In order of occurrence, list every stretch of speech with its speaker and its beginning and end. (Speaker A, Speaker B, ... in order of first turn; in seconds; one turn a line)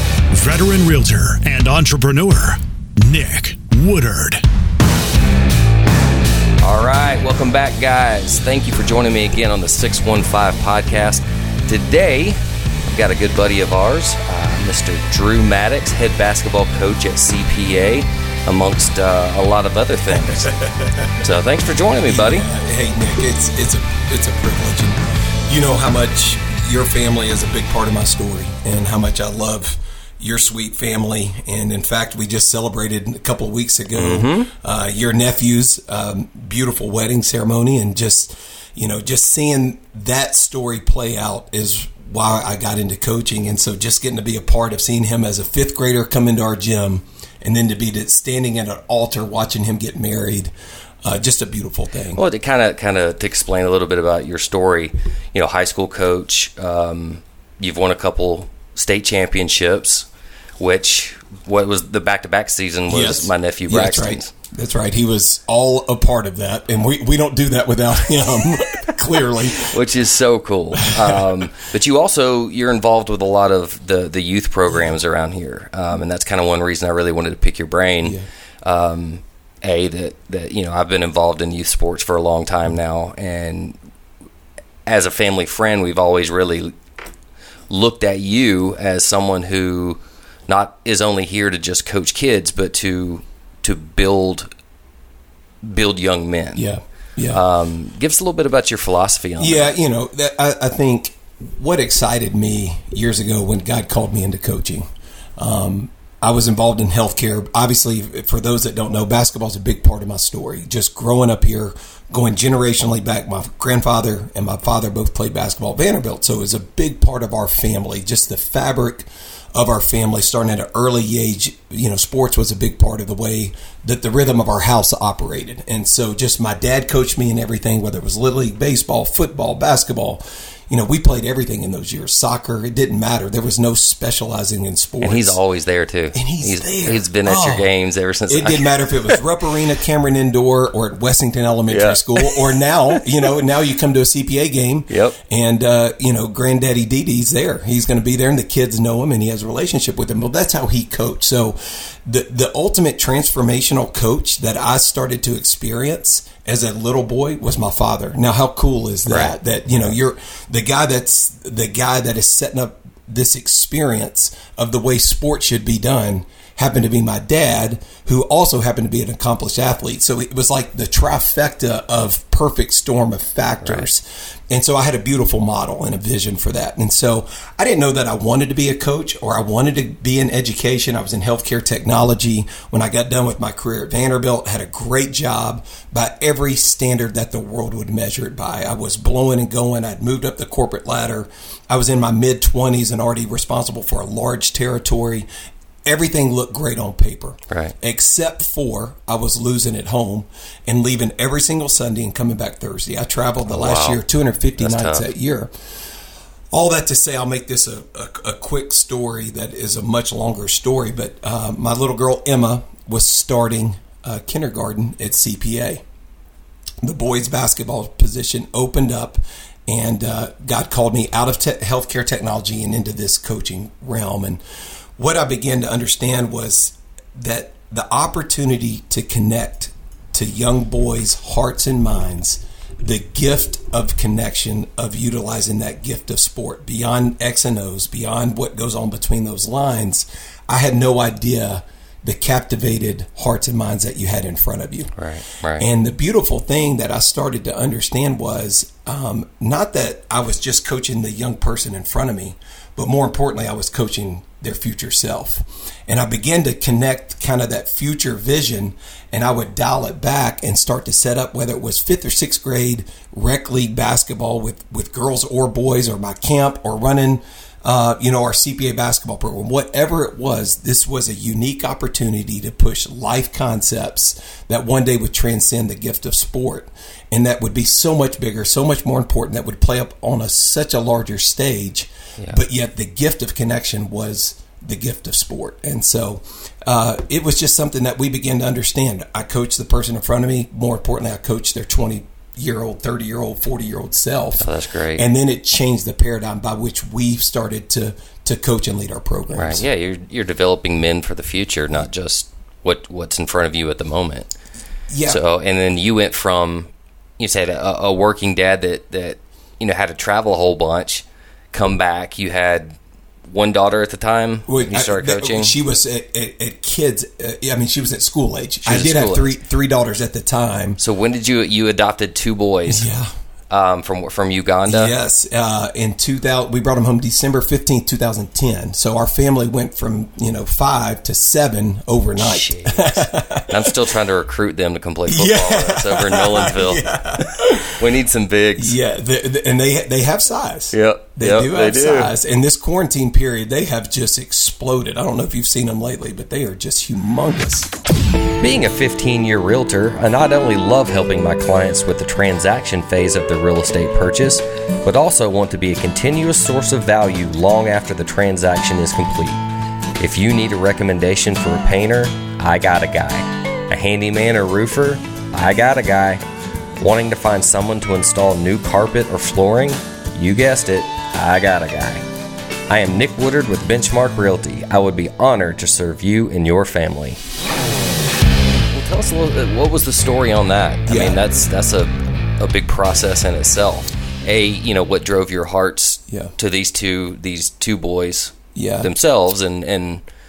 Speaker A: 0.3-4.4
Speaker B: 6.6-20.5
Speaker C: 20.1-21.1
Speaker B: 21.1-22.5
Speaker C: 22.1-52.2
Speaker B: 33.9-34.5
Speaker B: 52.1-60.1
Speaker B: 60.6-64.3
Speaker C: 62.9-69.7
Speaker B: 69.5-83.8
Speaker C: 70.8-71.3
Speaker B: 84.8-86.7
Speaker B: 87.7-94.5
Speaker B: 95.6-96.7
Speaker C: 96.5-97.4
Speaker B: 97.3-99.7
Speaker C: 99.4-104.8
Speaker C: 105.4-135.4
Speaker B: 135.0-139.2
Speaker C: 136.1-137.7
Speaker C: 138.3-195.3
Speaker B: 141.7-142.4
Speaker B: 144.9-145.2
Speaker B: 159.1-159.4
Speaker C: 195.8-205.5
Speaker B: 197.5-197.7
Speaker B: 203.5-204.0
Speaker B: 204.6-205.1
Speaker C: 206.5-215.8
Speaker C: 216.8-224.4
Speaker C: 225.0-244.9
Speaker B: 244.9-245.7
Speaker C: 245.6-299.6
Speaker B: 294.4-295.0
Speaker B: 299.3-304.3
Speaker C: 304.9-305.2
Speaker B: 305.1-312.8
Speaker B: 313.3-315.6
Speaker C: 314.5-320.8
Speaker B: 318.6-319.4
Speaker B: 320.8-322.9
Speaker C: 322.6-323.1
Speaker B: 323.5-324.9
Speaker C: 324.7-333.7
Speaker B: 332.2-336.9
Speaker C: 335.1-337.8
Speaker B: 337.8-338.8
Speaker C: 338.6-347.7
Speaker B: 340.7-342.1
Speaker B: 348.4-359.4
Speaker B: 360.0-366.2
Speaker B: 366.8-372.0
Speaker B: 372.7-377.2
Speaker B: 378.7-390.0
Speaker C: 380.9-381.2
Speaker C: 386.1-386.3
Speaker C: 388.5-388.9